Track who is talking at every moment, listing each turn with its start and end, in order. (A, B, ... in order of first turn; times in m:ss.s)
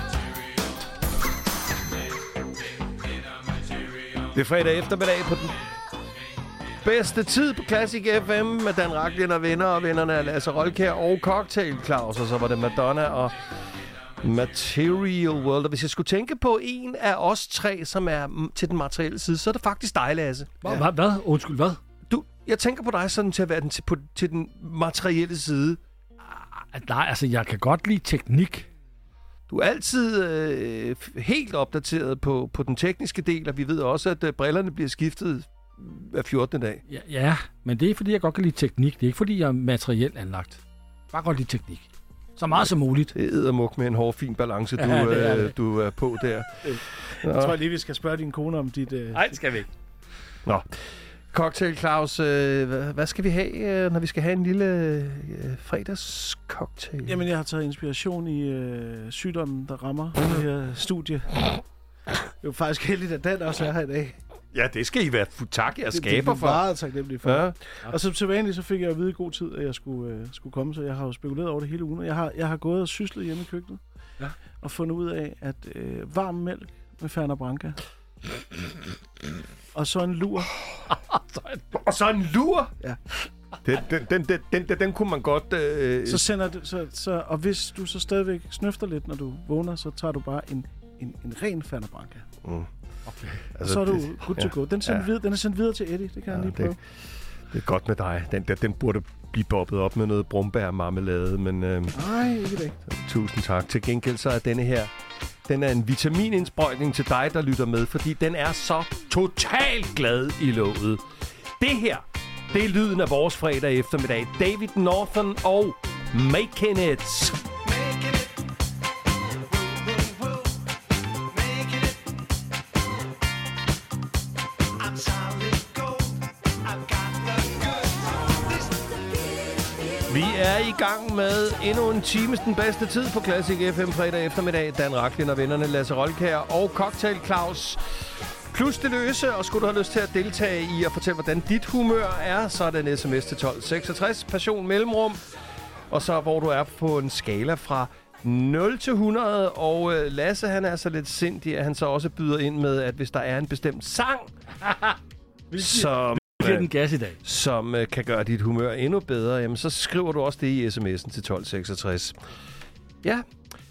0:04.2-0:05.6 A
0:06.8-0:13.5 A
0:14.2-0:20.8 A
0:20.6-0:21.8 B
0:22.1-0:25.8 A
0:26.6-0:28.7 B
0:29.5-0:36.8 A
0:36.9-0:43.1 B
0:43.1-0:47.6 A
0:44.8-0:45.5 B
0:47.2-0:49.3 C
0:49.1-0:49.7 B
0:50.4-0:57.2 A
0:57.0-1:01.6 C
1:02.4-1:04.2 C
1:04.5-1:06.6 A
1:05.9-1:13.8 C
1:07.2-1:07.6 A
1:14.6-1:17.8 C
1:19.7-1:20.5 C
1:20.9-1:21.6 B
1:21.7-1:22.7 A
1:23.6-1:26.3 A
1:26.0-1:32.2 C
1:32.4-1:32.7 A
1:33.1-1:33.5 B
1:33.5-1:35.1 A
1:33.6-1:36.8 C
1:36.3-1:36.8 A
1:37.5-1:42.1 A
1:41.9-1:42.8 C
1:42.9-1:44.9 A
1:45.4-1:57.5 A
2:05.1-2:05.6 C
2:10.1-2:17.8 A
2:18.5-2:25.2 A
2:25.9-2:34.3 A
2:34.6-2:35.0 B
2:35.5-2:37.2 B
2:35.6-2:36.7 A
2:37.2-2:42.2 A
2:43.0-2:43.3 A